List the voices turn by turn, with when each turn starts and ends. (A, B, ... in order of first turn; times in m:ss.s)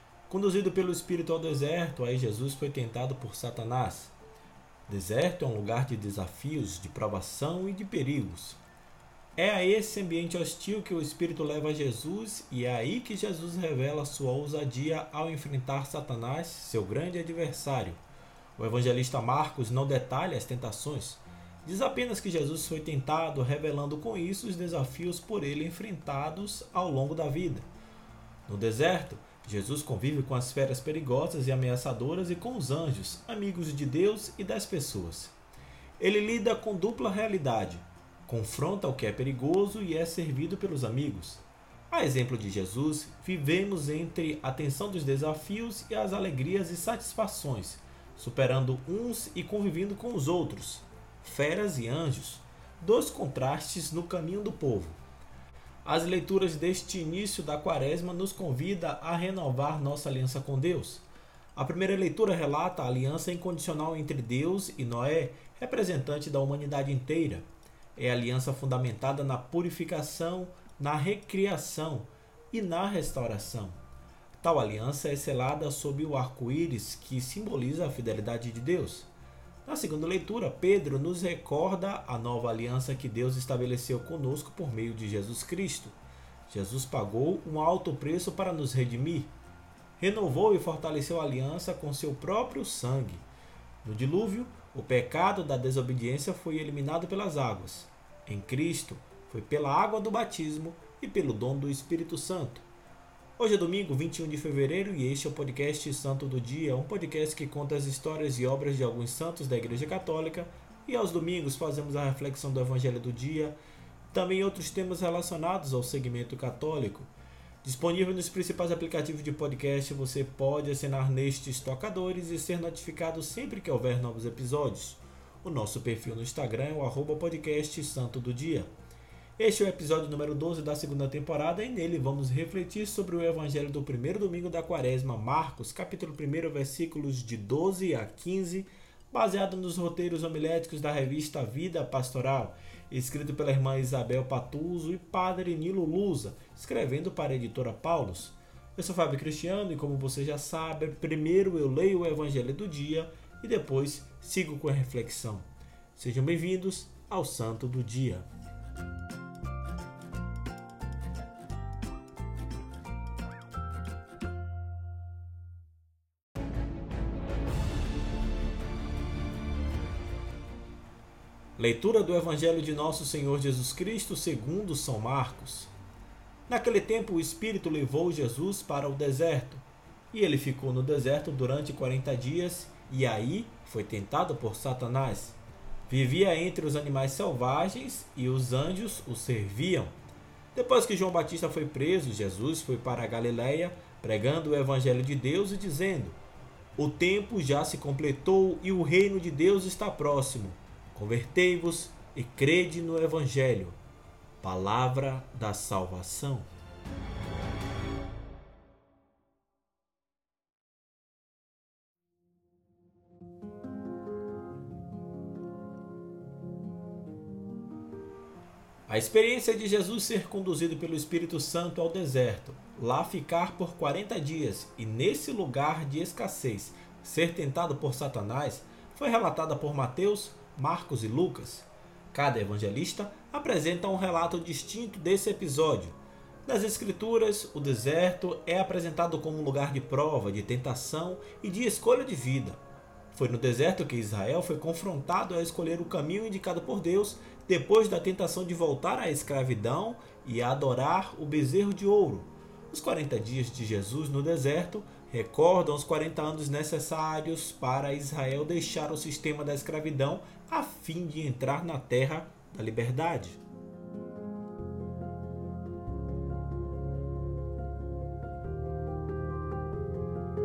0:00.3-0:04.1 A
0:04.9-0:08.6 A
0:09.4-0:18.0 A
0:18.6-0:27.7 A
0:28.5-0:35.3 A
0:36.0-0:55.0 A
0:55.8-1:01.0 A
1:01.6-1:07.4 A
1:08.0-1:13.8 A
1:14.4-1:19.1 A
1:19.6-1:26.0 A
1:26.5-1:29.3 A
1:30.0-1:33.2 A
1:33.8-1:42.6 A
1:43.4-1:53.6 A
1:54.1-1:57.1 A
1:57.6-2:08.7 A
2:09.4-2:38.3 A
2:51.6-2:55.7 A
2:56.5-3:05.4 A
3:05.9-3:10.0 A
3:10.5-3:16.2 A
3:16.8-3:23.8 A
3:24.4-3:26.5 A
3:38.9-4:02.6 A
4:03.1-4:23.4 A